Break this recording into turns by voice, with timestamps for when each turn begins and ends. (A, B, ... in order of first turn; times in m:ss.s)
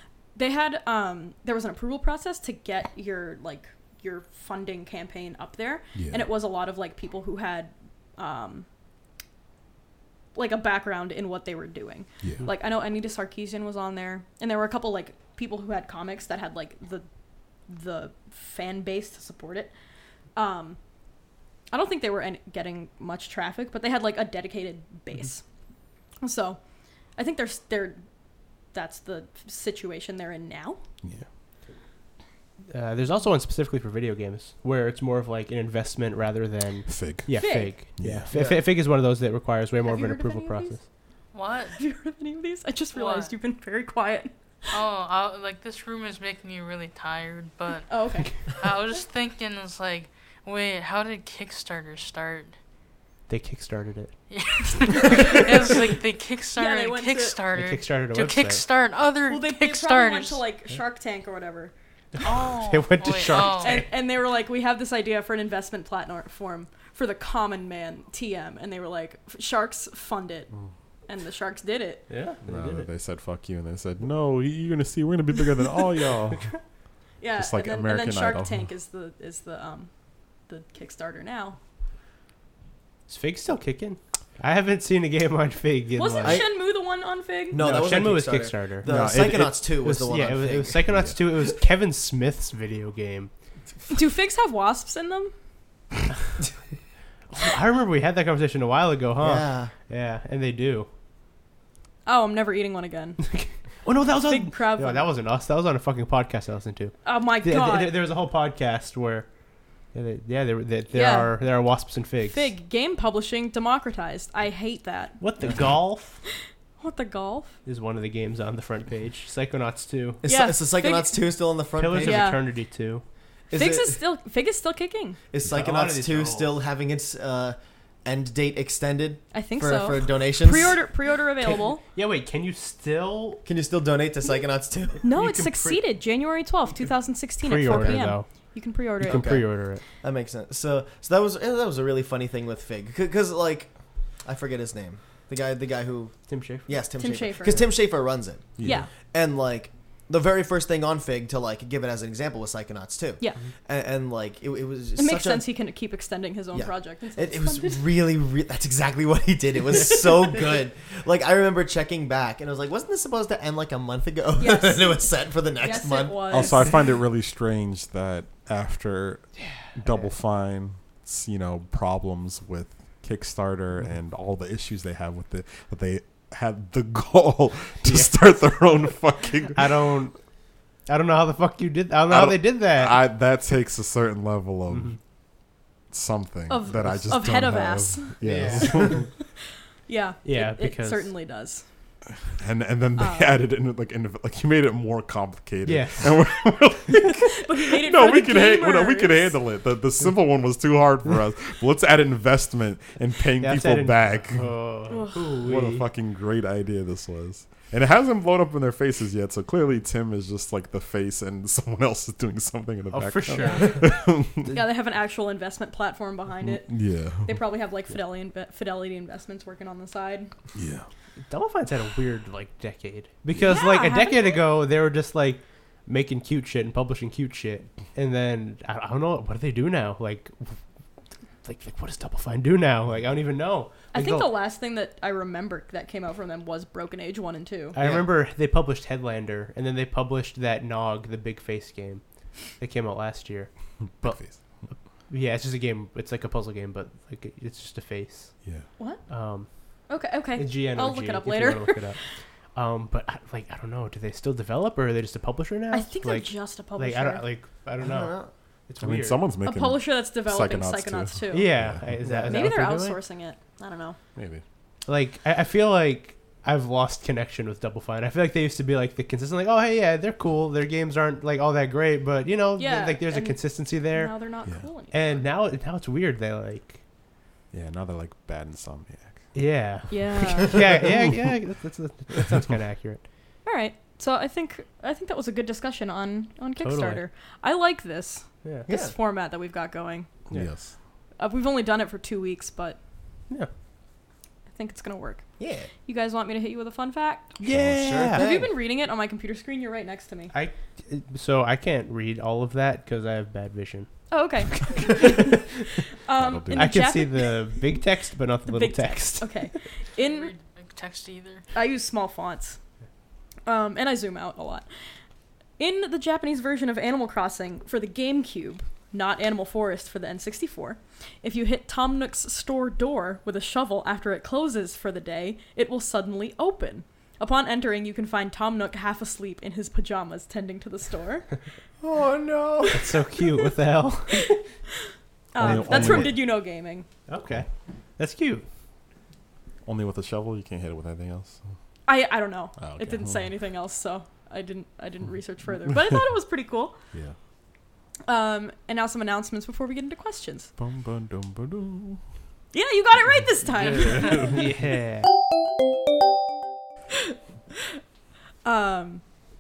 0:00.4-0:08.7 A
0:06.0-0:06.3 B
0:10.4-0:17.1 A
0:17.7-0:19.7 A
0:20.4-0:20.8 A
0:21.7-0:25.4 A
0:26.2-0:26.6 A
0:27.2-0:28.0 A
0:28.7-0:30.8 A
0:32.7-0:40.8 C
0:36.9-0:38.3 B
0:37.4-0:37.8 A
0:38.3-0:38.6 D
0:39.8-0:40.8 A
0:41.3-0:41.8 E
0:41.8-0:44.3 A
0:42.9-0:43.3 E
0:44.7-0:47.9 E
0:47.9-0:48.3 A
0:48.5-0:52.6 E
0:53.3-0:54.2 C
0:54.3-1:00.4 E
0:55.1-0:55.7 A
0:56.6-0:57.4 A
0:57.5-0:58.6 C
0:59.3-1:01.7 A
1:02.2-1:03.9 E
1:02.2-1:03.9 C
1:03.3-1:10.5 A
1:11.1-1:12.1 A
1:12.1-1:12.9 C
1:12.4-1:16.5 B
1:17.2-1:19.9 A
1:17.4-1:18.7 B
1:20.5-1:21.6 A
1:23.1-1:26.4 C
1:26.0-1:27.6 A
1:26.2-1:26.5 D
1:27.5-1:31.0 D
1:27.6-1:33.3 C
1:28.8-1:29.6 B
1:30.9-1:31.2 B
1:33.9-1:35.3 A
1:37.3-1:40.9 C
1:39.2-1:39.7 D
1:42.1-1:43.2 A
1:43.3-1:49.3 C
1:44.3-1:45.1 A
1:47.0-1:48.0 A
1:49.9-1:52.5 C
1:50.9-1:51.4 A
1:52.3-1:55.2 A
1:55.2-1:56.2 C
1:56.8-1:57.6 A
1:57.6-2:00.2 C
2:00.2-2:02.3 D
2:00.2-2:01.3 A
2:01.8-2:03.0 C
2:02.0-2:02.4 A
2:03.5-2:04.0 D
2:03.5-2:05.2 A
2:05.3-2:10.8 D
2:05.5-2:06.6 C
2:09.3-2:11.8 A
2:11.5-2:13.4 C
2:13.4-2:15.0 D
2:15.0-2:19.3 A
2:15.1-2:15.8 C
2:17.4-2:18.3 C
2:17.7-2:18.0 D
2:19.0-2:19.8 C
2:19.0-2:23.7 D
2:24.2-2:35.5 D
2:26.3-2:26.7 C
2:27.0-2:27.7 A
2:28.6-2:28.9 B
2:28.6-2:28.9 A
2:35.0-2:37.8 A
2:36.5-2:46.5 D
2:44.4-2:45.1 A
2:45.6-2:46.8 A
2:46.3-2:59.8 B
2:49.4-2:50.0 C
2:57.8-2:58.1 C
2:59.6-3:00.2 C
3:00.9-3:03.0 C
3:02.1-3:05.0 B
3:04.7-3:05.0 C
3:05.9-3:09.1 B
3:06.5-3:09.2 A
3:08.2-3:09.0 C
3:09.9-3:11.6 A
3:10.2-3:11.1 C
3:12.3-3:24.5 B
3:13.0-3:13.4 A
3:15.6-3:16.2 C
3:17.1-3:19.4 A
3:23.4-3:25.8 C
3:24.9-3:25.4 A
3:25.4-3:34.5 B
3:32.9-3:33.8 C
3:33.4-3:33.9 A
3:34.5-3:40.3 A
3:36.4-3:37.4 B
3:40.6-3:40.9 B
3:41.3-3:50.6 C
3:43.4-3:44.4 A
3:51.4-3:54.3 C
3:53.9-3:57.8 A
3:57.8-4:03.5 C
3:57.8-3:58.1 D
4:04.0-4:04.4 B
4:05.1-4:08.4 C
4:09.1-4:09.5 C
4:09.9-4:11.8 A
4:10.4-4:12.0 C
4:12.6-4:19.2 C
4:15.7-4:17.3 A
4:17.8-4:18.3 D
4:18.8-4:21.9 B
4:19.4-4:21.6 A
4:21.3-4:23.0 C
4:22.1-4:22.4 D
4:22.3-4:24.0 A
4:24.2-4:24.4 B
4:24.9-4:34.2 C
4:32.6-4:35.2 A
4:34.9-4:36.8 C
4:37.5-4:39.2 B
4:39.3-4:43.0 C
4:39.9-4:40.6 A
4:43.4-4:50.1 A
4:46.6-4:47.0 C
4:48.7-4:49.0 D
4:50.3-4:50.7 B
4:51.2-4:52.8 A
4:54.5-4:57.4 A
4:55.4-4:55.7 D
4:57.4-4:58.2 C
4:57.5-4:58.0 B
4:57.8-4:58.5 D
4:58.1-5:00.3 A
5:00.3-5:05.4 C
5:04.1-5:07.7 A
5:06.2-5:06.9 B
5:06.5-5:09.6 C
5:08.5-5:10.3 A
5:10.0-5:11.4 E
5:11.5-5:12.6 A
5:13.5-5:14.7 A
5:15.6-5:31.3 A
5:31.8-5:32.8 D
5:32.7-5:34.4 C
5:35.3-5:36.9 A
5:35.4-5:36.2 B
5:35.4-5:36.2 C
5:37.1-5:37.5 C
5:38.0-5:38.4 C
5:39.6-5:41.4 B
5:41.9-5:46.8 A
5:42.6-5:43.3 B
5:48.1-5:50.5 A
5:50.6-5:52.0 B
5:52.5-5:54.4 A
5:53.6-5:54.5 B
5:54.1-5:55.1 C
5:58.4-5:59.0 A